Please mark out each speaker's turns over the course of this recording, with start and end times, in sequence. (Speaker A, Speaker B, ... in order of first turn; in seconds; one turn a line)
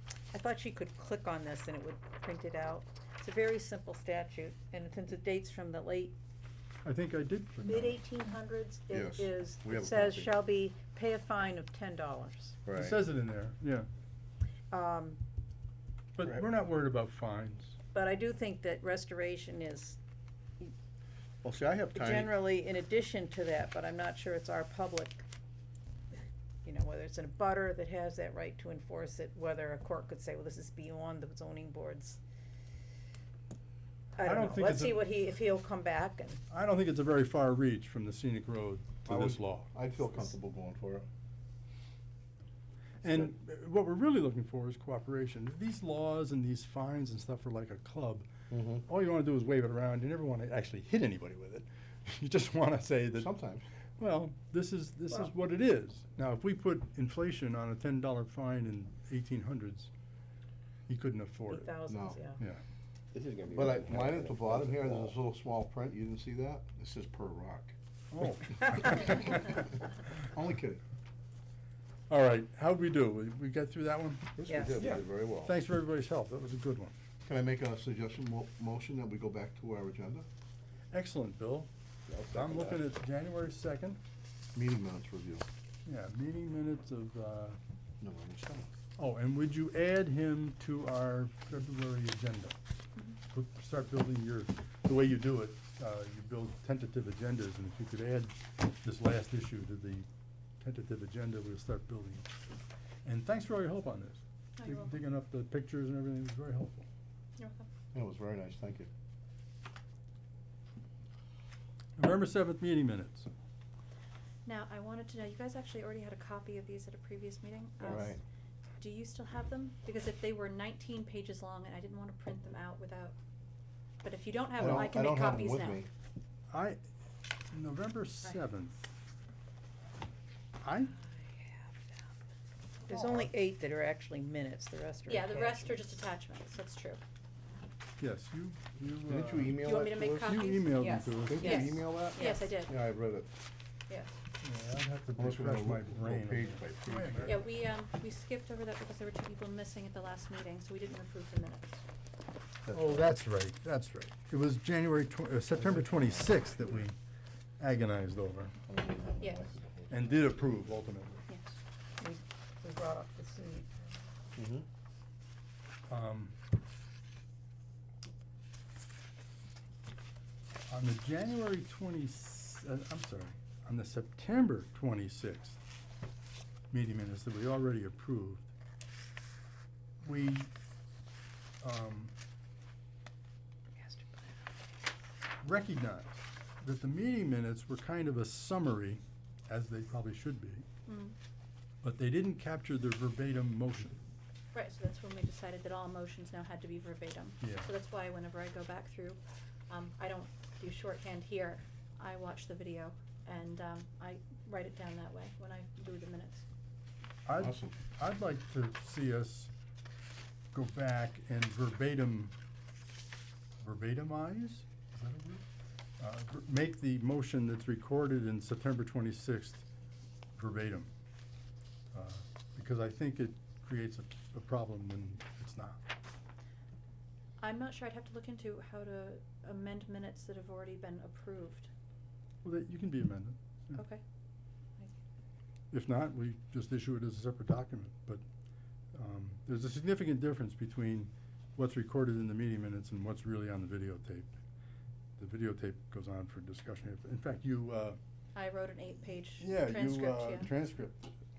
Speaker A: 0.3-6.2
Speaker B: 6.8-8.0
Speaker A: 7.7-12.6
Speaker C: 8.9-10.4
Speaker C: 12.7-13.0
Speaker B: 12.8-13.9
Speaker A: 14.7-15.2
Speaker B: 16.1-17.8
Speaker A: 17.9-20.0
Speaker C: 21.4-22.4
Speaker A: 21.9-25.2
Speaker A: 26.1-32.2
Speaker A: 34.1-36.4
Speaker B: 34.2-35.0
Speaker B: 36.5-39.7
Speaker C: 39.1-41.1
Speaker B: 43.0-48.3
Speaker C: 43.0-43.3
Speaker C: 48.5-48.9
Speaker B: 48.9-53.3
Speaker C: 53.1-53.6
Speaker B: 54.0-59.9
Speaker B: 60.9-61.8
Speaker A: 61.5-62.4
Speaker C: 61.9-62.2
Speaker D: 63.1-65.0
Speaker C: 63.5-67.8
Speaker B: 68.1-69.7
Speaker C: 70.2-70.8
Speaker B: 72.1-74.3
Speaker C: 74.4-75.5
Speaker A: 74.5-74.8
Speaker B: 75.4-76.9
Speaker C: 77.2-80.3
Speaker B: 80.9-81.7
Speaker D: 82.1-82.8
Speaker B: 82.3-84.0
Speaker C: 84.5-85.5
Speaker B: 85.9-87.6
Speaker C: 88.0-88.7
Speaker B: 89.0-92.5
Speaker B: 93.3-100.1
Speaker B: 100.6-102.3
Speaker B: 103.0-106.9
Speaker E: 104.6-104.9
Speaker E: 107.4-107.7
Speaker C: 107.9-108.9
Speaker B: 112.0-113.3
Speaker E: 114.5-118.2
Speaker C: 117.8-118.2
Speaker E: 118.8-123.2
Speaker E: 124.0-125.8
Speaker C: 124.6-125.9
Speaker B: 126.5-126.8
Speaker B: 127.5-128.8
Speaker B: 130.6-130.9
Speaker A: 130.9-132.1
Speaker A: 132.9-135.8
Speaker B: 132.9-133.3
Speaker E: 135.1-137.0
Speaker B: 138.0-139.7
Speaker C: 139.1-140.5
Speaker E: 139.6-142.8
Speaker B: 140.2-142.1
Speaker A: 140.8-142.5
Speaker C: 141.2-143.3
Speaker E: 143.9-144.2
Speaker B: 144.4-147.4
Speaker C: 145.2-147.4
Speaker E: 147.2-151.8
Speaker C: 152.7-153.2
Speaker B: 152.7-157.0
Speaker C: 155.5-156.8
Speaker B: 157.6-158.6
Speaker C: 158.7-159.9
Speaker D: 158.8-159.4
Speaker B: 159.9-161.2
Speaker E: 161.3-161.6
Speaker A: 162.0-163.7
Speaker C: 164.3-164.7
Speaker B: 165.9-166.3
Speaker B: 170.7-175.6
Speaker B: 176.7-178.5
Speaker B: 180.0-180.5
Speaker B: 181.6-182.1
Speaker A: 183.8-184.3
Speaker B: 185.4-190.7
Speaker E: 190.9-191.2
Speaker B: 191.8-194.0
Speaker E: 194.5-206.4
Speaker B: 197.4-197.7
Speaker B: 207.2-209.5
Speaker C: 207.4-207.8
Speaker B: 210.5-212.3
Speaker B: 213.6-215.4
Speaker B: 216.0-219.7
Speaker B: 220.4-220.9
Speaker B: 221.9-225.8
Speaker E: 227.4-231.7
Speaker B: 232.4-233.8
Speaker E: 233.7-234.0
Speaker B: 235.7-238.2
Speaker B: 238.9-244.3
Speaker B: 245.2-248.0
Speaker E: 248.3-250.5
Speaker B: 249.4-251.1